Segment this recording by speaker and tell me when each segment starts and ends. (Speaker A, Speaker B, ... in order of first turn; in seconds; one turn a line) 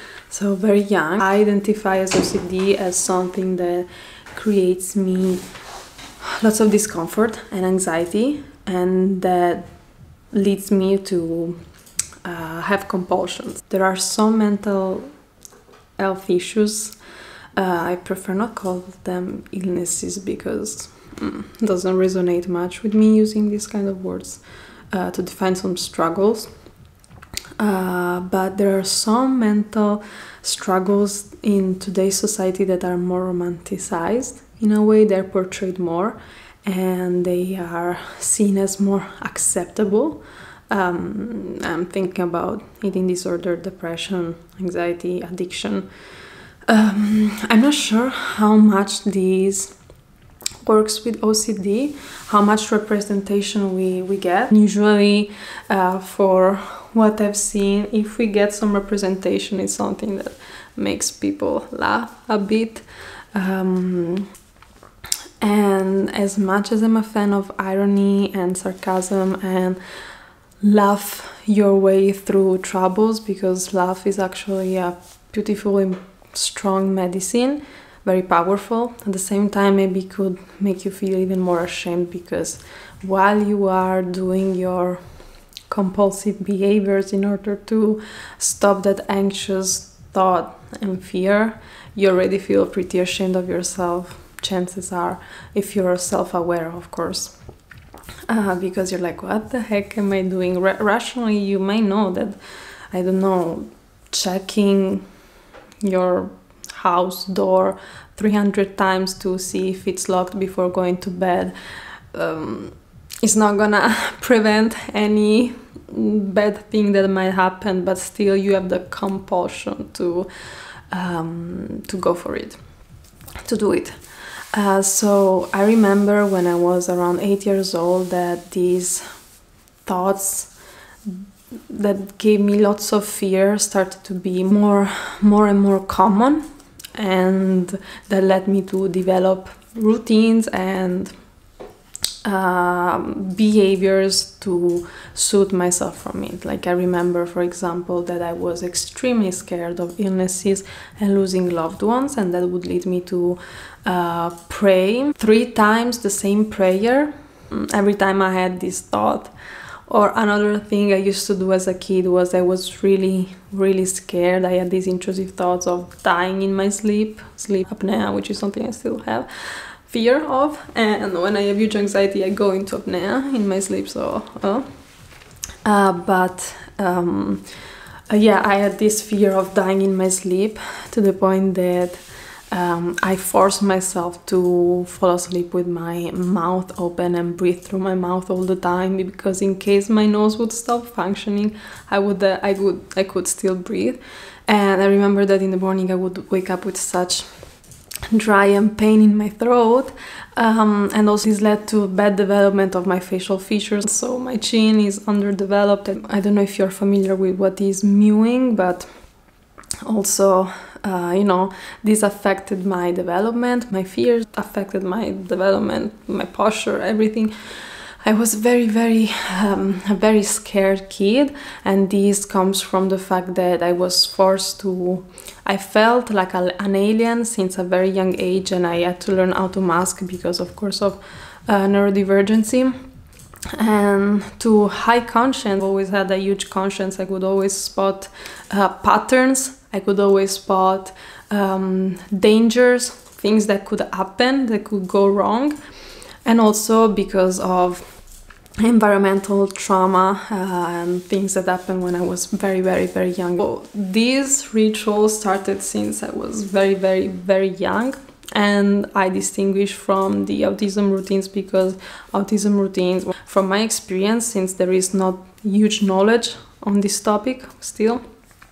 Speaker A: 0.3-5.4
Speaker A: 6.2-9.7
Speaker A: 10.3-11.6
Speaker A: 12.2-15.1
Speaker A: 16.0-17.0
Speaker A: 17.6-24.4
Speaker A: 24.9-26.5
Speaker A: 27.6-45.9
Speaker A: 46.7-49.8
Speaker A: 50.6-64.3
Speaker A: 65.4-69.8
Speaker A: 70.6-85.0
Speaker A: 85.7-97.3
Speaker A: 98.3-102.4
Speaker A: 102.9-105.0
Speaker A: 105.8-111.5
Speaker A: 112.1-120.3
Speaker A: 120.9-122.6
Speaker A: 123.5-124.0
Speaker A: 124.5-129.1
Speaker A: 129.9-130.5
Speaker A: 131.1-141.2
Speaker A: 142.2-159.3
Speaker A: 159.9-174.7
Speaker A: 175.6-177.5
Speaker A: 178.1-182.0
Speaker A: 182.5-197.3
Speaker A: 198.1-208.9
Speaker A: 209.8-232.8
Speaker A: 233.5-245.6
Speaker A: 246.2-247.9
Speaker A: 248.6-268.0